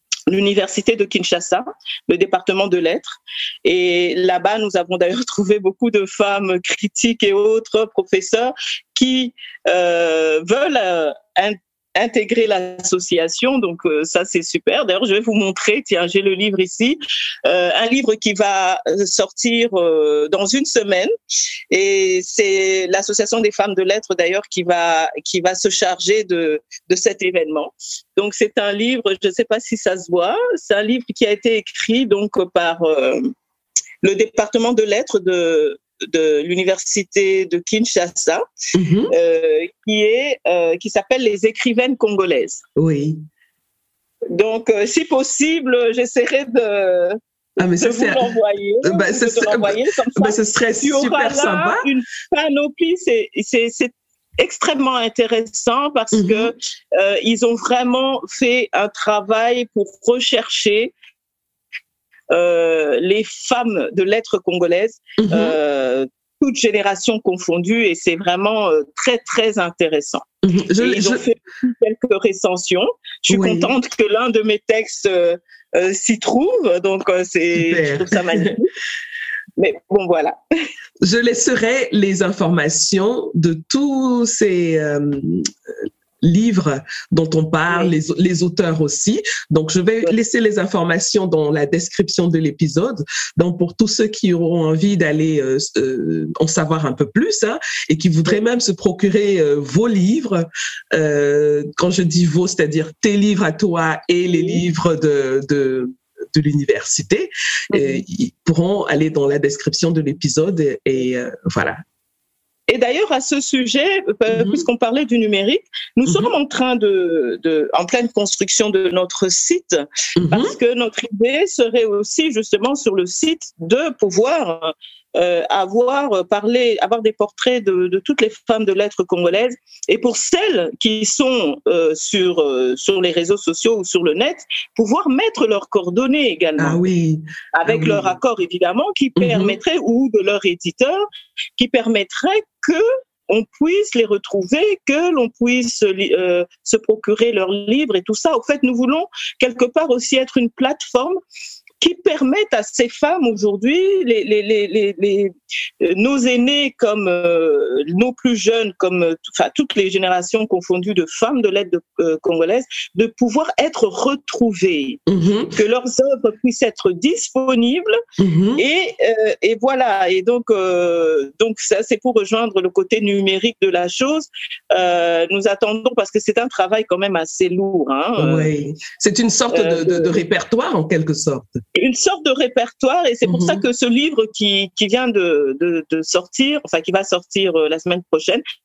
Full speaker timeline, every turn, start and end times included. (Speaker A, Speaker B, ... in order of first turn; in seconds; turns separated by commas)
Speaker A: 0.3-21.1, Speaker A: 21.7-33.3, Speaker A: 34.0-38.4, Speaker B: 38.7-39.1, Speaker A: 39.1-42.6, Speaker B: 42.8-43.2, Speaker A: 44.3-47.2, Speaker B: 47.6-48.3, Speaker A: 47.8-60.9, Speaker B: 48.8-51.8, Speaker B: 56.1-56.5, Speaker A: 62.3-70.2, Speaker B: 65.2-65.6, Speaker B: 70.4-71.2, Speaker A: 70.8-78.7, Speaker B: 73.3-73.7, Speaker B: 77.6-78.5, Speaker A: 79.6-80.3, Speaker B: 81.0-85.5, Speaker B: 86.2-111.8, Speaker A: 104.2-104.6, Speaker A: 107.7-108.0, Speaker A: 112.7-136.8, Speaker B: 114.3-114.6, Speaker B: 116.0-116.3, Speaker B: 120.2-120.5, Speaker B: 136.6-138.1, Speaker A: 137.5-141.0, Speaker B: 139.2-139.6, Speaker A: 141.6-151.2, Speaker A: 151.8-165.0, Speaker B: 165.1-165.5, Speaker A: 165.5-167.9, Speaker B: 168.2-168.6, Speaker A: 168.6-178.5, Speaker B: 178.2-181.6, Speaker A: 179.5-180.1, Speaker A: 181.7-188.4, Speaker B: 183.2-183.6